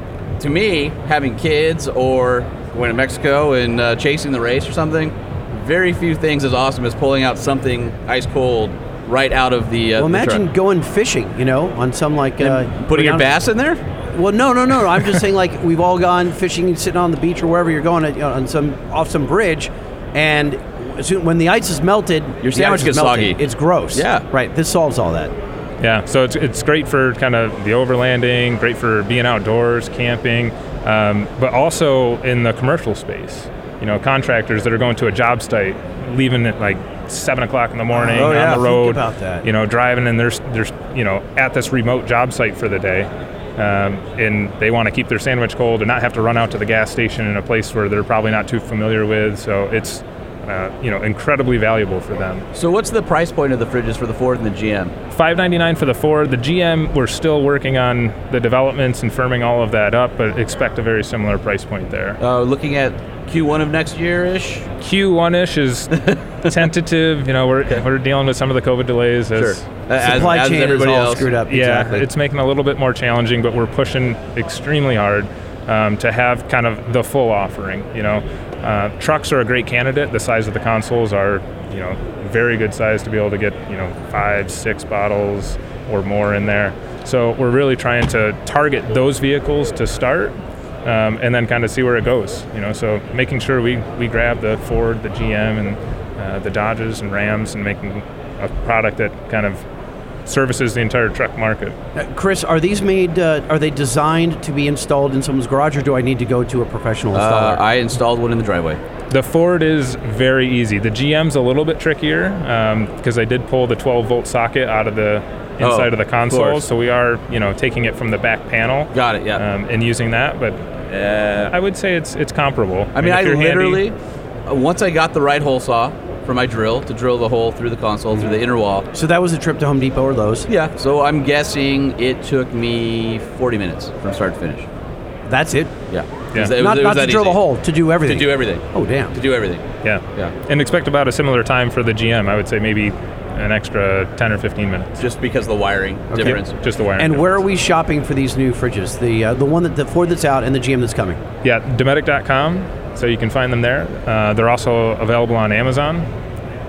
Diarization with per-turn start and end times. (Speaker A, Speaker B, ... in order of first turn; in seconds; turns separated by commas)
Speaker A: 0.4-10.4, Speaker B: 9.9-13.3, Speaker A: 12.4-13.8, Speaker B: 14.1-25.3, Speaker A: 22.4-23.4, Speaker A: 23.9-24.2, Speaker C: 25.8-52.5, Speaker B: 37.9-39.4, Speaker A: 38.1-38.6, Speaker A: 52.5-54.9, Speaker C: 55.1-62.2, Speaker A: 62.2-64.7, Speaker C: 64.8-65.9, Speaker A: 66.0-66.5, Speaker C: 66.4-69.7, Speaker A: 69.3-71.3, Speaker B: 70.0-72.0, Speaker C: 71.5-99.6, Speaker C: 100.2-101.7, Speaker B: 102.0-107.6, Speaker A: 107.1-108.8, Speaker C: 109.1-120.6, Speaker A: 115.6-116.6, Speaker A: 118.9-119.4, Speaker A: 120.9-121.5, Speaker C: 121.5-123.9, Speaker A: 122.9-123.9, Speaker A: 124.5-128.9, Speaker B: 128.9-130.5, Speaker A: 130.5-134.7, Speaker B: 135.3-135.7, Speaker A: 135.9-137.4, Speaker B: 136.6-139.1, Speaker A: 138.1-139.6, Speaker C: 139.8-145.0, Speaker A: 145.0-146.6, Speaker B: 146.1-146.4, Speaker C: 146.2-147.3, Speaker B: 147.0-151.2, Speaker C: 151.4-156.1